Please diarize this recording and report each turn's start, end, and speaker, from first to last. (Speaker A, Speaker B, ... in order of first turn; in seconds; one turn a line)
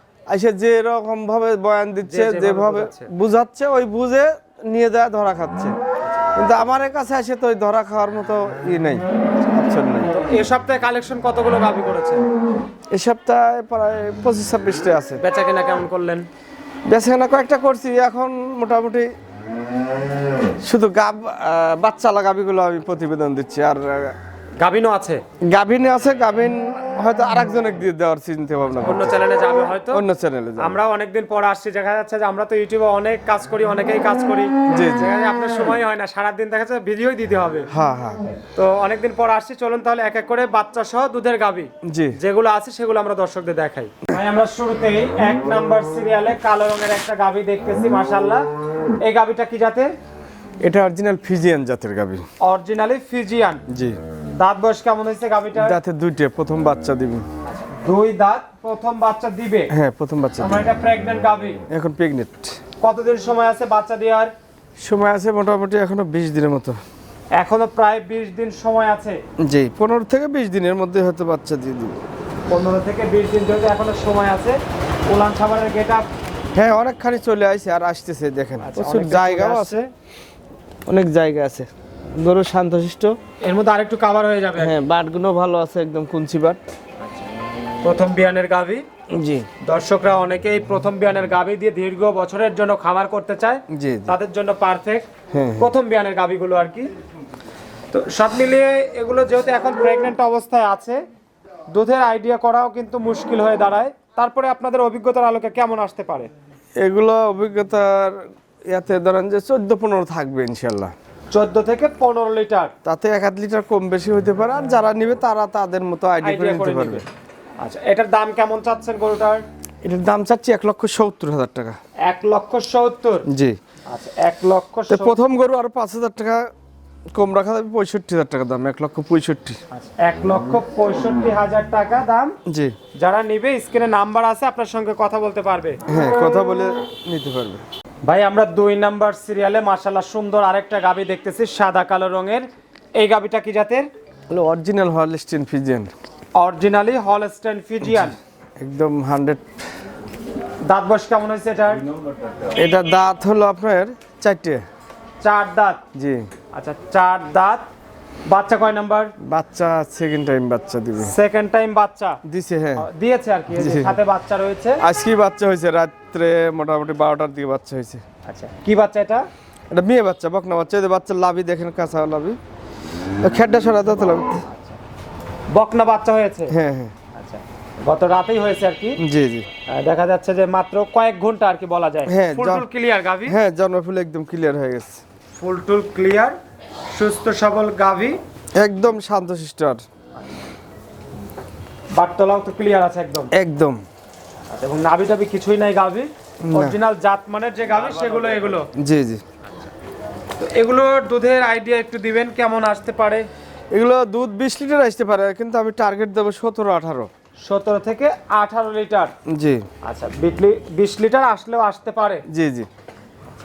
Speaker A: 0.3-5.8
Speaker B: 2.1-3.1
Speaker A: 6.4-10.1
Speaker B: 10.1-12.2
Speaker A: 12.9-15.2
Speaker B: 15.2-16.3
Speaker A: 16.9-19.1
Speaker A: 20.6-24.2
Speaker B: 24.6-25.2
Speaker A: 25.5-29.2
Speaker B: 28.8-30.0
Speaker A: 29.9-30.8
Speaker B: 30.6-37.7
Speaker A: 34.7-35.1
Speaker A: 37.7-38.2
Speaker B: 38.5-48.5
Speaker A: 41.8-42.2
Speaker B: 49.0-49.9
Speaker A: 50.6-52.2
Speaker B: 52.4-53.6
Speaker A: 53.7-54.0
Speaker B: 54.4-55.8
Speaker A: 55.6-57.2
Speaker B: 57.5-59.7
Speaker A: 59.7-60.7
Speaker B: 60.4-61.6
Speaker A: 61.7-62.6
Speaker B: 62.8-64.3
Speaker A: 64.8-66.8
Speaker B: 67.4-69.2
Speaker A: 69.4-72.0
Speaker B: 72.5-74.6
Speaker B: 75.1-76.0
Speaker A: 76.5-79.8
Speaker B: 78.6-79.9
Speaker A: 80.9-83.2
Speaker B: 83.4-84.8
Speaker A: 84.6-86.6
Speaker B: 87.8-88.8
Speaker A: 89.1-89.5
Speaker B: 89.6-95.0
Speaker A: 93.7-94.2
Speaker A: 95.3-95.7
Speaker B: 95.6-96.9
Speaker B: 97.9-101.0
Speaker B: 101.7-106.3
Speaker A: 106.8-110.9
Speaker B: 111.3-112.7
Speaker A: 112.8-117.0
Speaker B: 116.2-117.0
Speaker B: 117.6-119.4
Speaker A: 119.8-121.8
Speaker B: 122.0-123.3
Speaker A: 123.3-123.6
Speaker B: 123.9-125.2
Speaker A: 124.9-126.5
Speaker A: 127.1-129.6
Speaker B: 129.7-132.4
Speaker A: 132.5-132.8
Speaker B: 133.0-135.8
Speaker A: 135.9-137.7
Speaker B: 138.1-143.9
Speaker A: 144.3-145.9
Speaker B: 146.4-148.2
Speaker A: 147.9-149.5
Speaker B: 150.7-151.8
Speaker A: 152.6-154.6
Speaker B: 155.2-155.8
Speaker A: 155.9-156.3
Speaker B: 156.5-157.7
Speaker B: 158.3-159.1
Speaker A: 159.2-161.2
Speaker B: 161.0-162.2
Speaker A: 162.3-162.9
Speaker B: 162.8-164.8
Speaker A: 163.5-164.0
Speaker A: 164.8-168.0
Speaker B: 168.2-169.3
Speaker A: 169.7-172.4
Speaker A: 173.2-174.4
Speaker B: 175.5-176.5
Speaker A: 176.5-176.9
Speaker B: 177.1-179.0
Speaker A: 179.0-179.5
Speaker B: 179.7-183.4
Speaker A: 182.1-182.7
Speaker A: 183.3-185.0
Speaker B: 185.4-186.3
Speaker B: 186.9-188.2
Speaker A: 188.6-189.8
Speaker B: 191.9-193.3
Speaker A: 193.3-193.8
Speaker B: 194.5-198.7
Speaker A: 196.4-196.8
Speaker A: 198.8-199.2
Speaker B: 200.4-203.3
Speaker A: 203.7-207.1
Speaker B: 207.4-209.1
Speaker A: 209.3-209.7
Speaker B: 209.8-212.2
Speaker A: 212.3-212.7